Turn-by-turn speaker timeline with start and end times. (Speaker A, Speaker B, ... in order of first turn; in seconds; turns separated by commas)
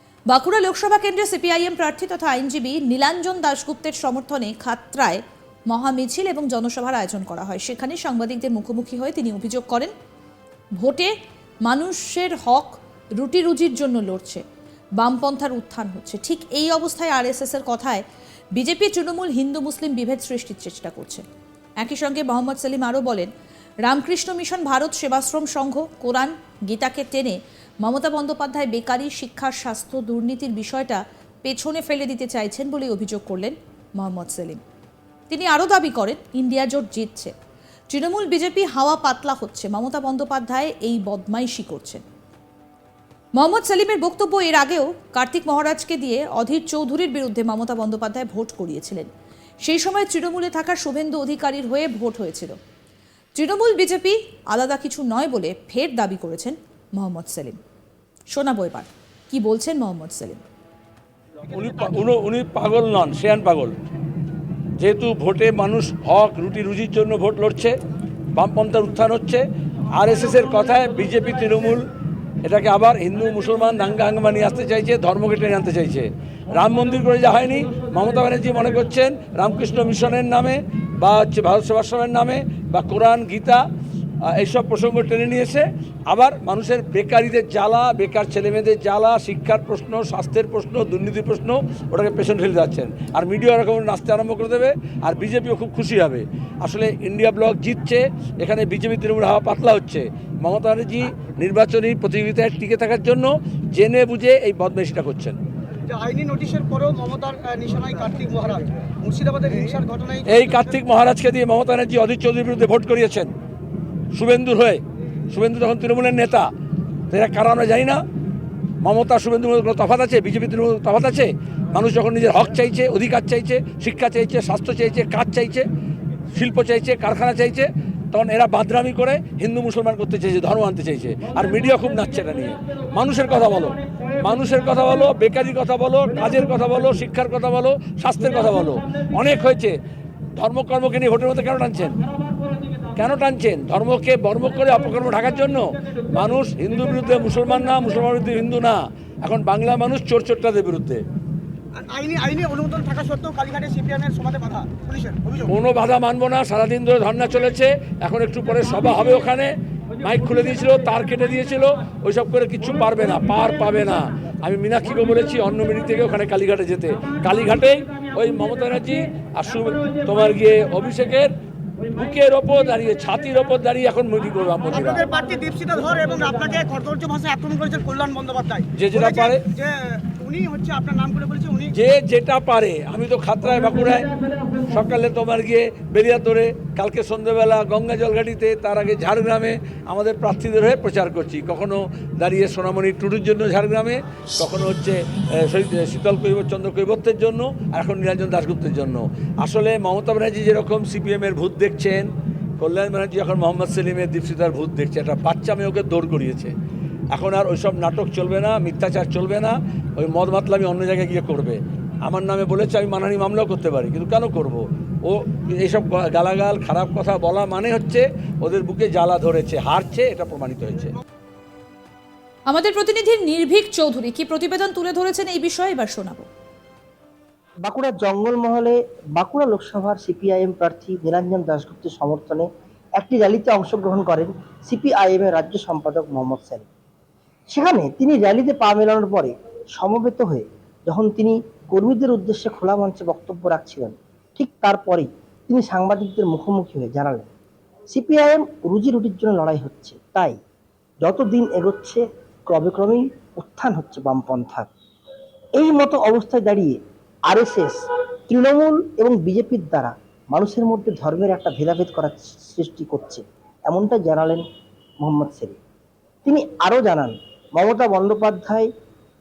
Speaker A: 0.3-9.9, Speaker A: 10.8-11.1, Speaker A: 11.6-14.4, Speaker A: 15.0-21.2, Speaker A: 21.8-23.3, Speaker A: 23.9-34.6, Speaker A: 35.3-37.3, Speaker A: 37.9-42.0, Speaker A: 43.3-49.1, Speaker A: 49.6-52.5, Speaker A: 53.3-57.6, Speaker A: 58.3-60.4, Speaker B: 61.5-63.7, Speaker B: 64.8-67.7, Speaker B: 68.3-71.8, Speaker B: 72.4-83.6, Speaker B: 84.2-105.4, Speaker C: 105.9-110.8, Speaker B: 110.2-113.3, Speaker B: 114.1-116.5, Speaker B: 117.1-118.0, Speaker B: 118.8-125.7, Speaker B: 126.3-139.8, Speaker B: 140.3-142.0, Speaker B: 142.9-151.0, Speaker C: 151.7-155.5, Speaker B: 155.5-171.3, Speaker B: 171.9-175.0, Speaker C: 174.7-181.7, Speaker B: 178.7-179.4, Speaker B: 181.7-184.1, Speaker B: 184.7-202.1, Speaker B: 202.6-206.5, Speaker B: 207.1-220.9, Speaker A: 222.5-226.3, Speaker D: 227.7-232.4, Speaker D: 233.0-236.7, Speaker D: 237.5-247.3, Speaker D: 247.9-250.4, Speaker D: 251.0-254.7, Speaker D: 255.6-257.8, Speaker D: 258.3-264.4, Speaker D: 265.0-265.6, Speaker D: 266.2-268.7